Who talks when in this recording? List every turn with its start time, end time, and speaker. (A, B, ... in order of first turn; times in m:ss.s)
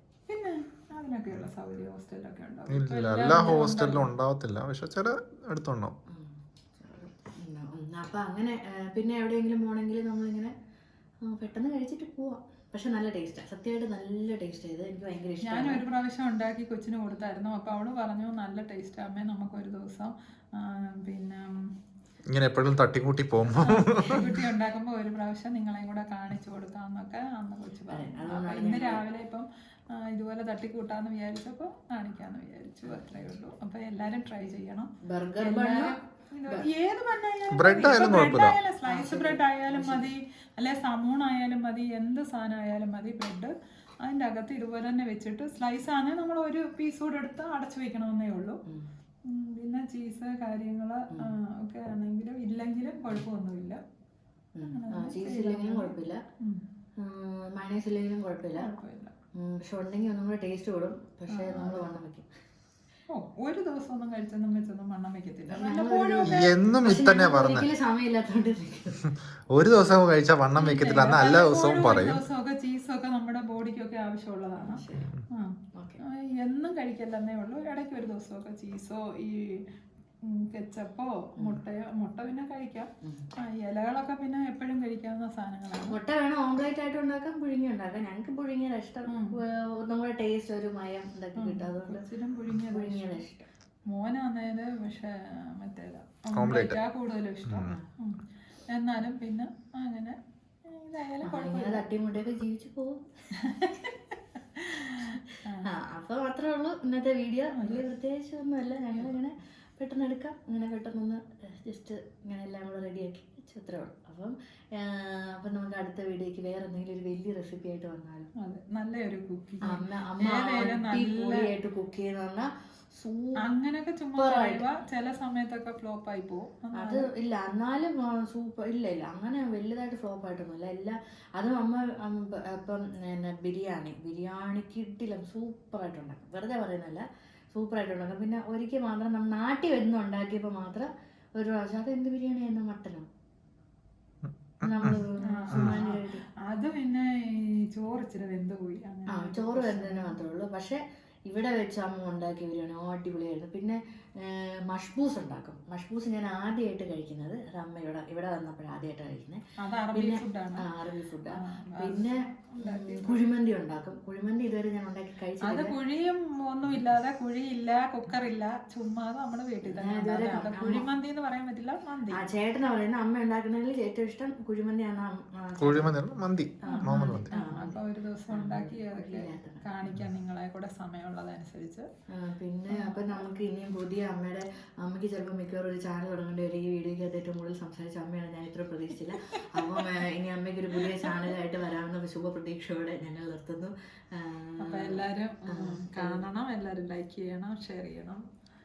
0:00.3-0:04.1 A
0:02.7-0:05.9 B
0:06.1-0:10.5 C
0:11.2-0:15.8 C
0:15.4-0:21.5 A
0:22.3-0:24.3 B
0:23.5-0:48.6 A
0:27.9-0:29.0 C
0:32.8-0:33.3 C
0:35.0-0:35.9 C
0:37.5-0:38.6 B
0:38.8-0:40.1 C
0:49.3-0:53.8 A
0:54.5-0:56.2 C
0:54.7-0:56.6 A
0:57.0-0:58.7 C
0:58.6-0:59.1 A
0:59.3-1:02.3 C
1:01.3-1:01.9 A
1:03.1-1:07.1 A
1:05.5-1:09.1 C
1:06.2-1:07.7 B
1:09.5-1:12.2 B
1:10.6-1:15.5 A
1:14.6-1:15.1 C
1:15.0-1:15.2 B
1:16.1-1:19.6 A
1:20.2-1:26.0 A
1:25.9-1:32.0 C
1:29.1-1:29.4 A
1:31.4-1:33.2 A
1:32.6-1:33.5 C
1:33.9-1:41.8 A
1:36.3-1:36.8 B
1:37.4-1:37.8 B
1:41.2-1:43.0 C
1:43.4-1:45.7 A
1:45.1-1:58.3 C
1:47.5-1:47.8 A
1:58.4-2:01.4 A
1:59.6-2:03.4 C
2:03.4-2:07.1 A
2:04.2-2:04.6 C
2:06.7-2:23.1 C
2:24.6-2:26.2 C
2:25.2-2:30.1 A
2:29.1-2:39.4 C
2:39.6-2:40.6 A
2:39.9-2:45.8 C
2:41.4-2:43.2 A
2:45.4-2:52.2 A
2:49.6-2:50.9 C
2:52.1-2:56.0 C
2:55.6-2:57.3 B
2:56.6-2:59.6 C
2:56.7-3:01.9 A
3:02.1-3:16.3 C
3:02.7-3:03.2 A
3:09.6-3:09.8 A
3:11.0-3:11.3 A
3:14.6-3:18.2 A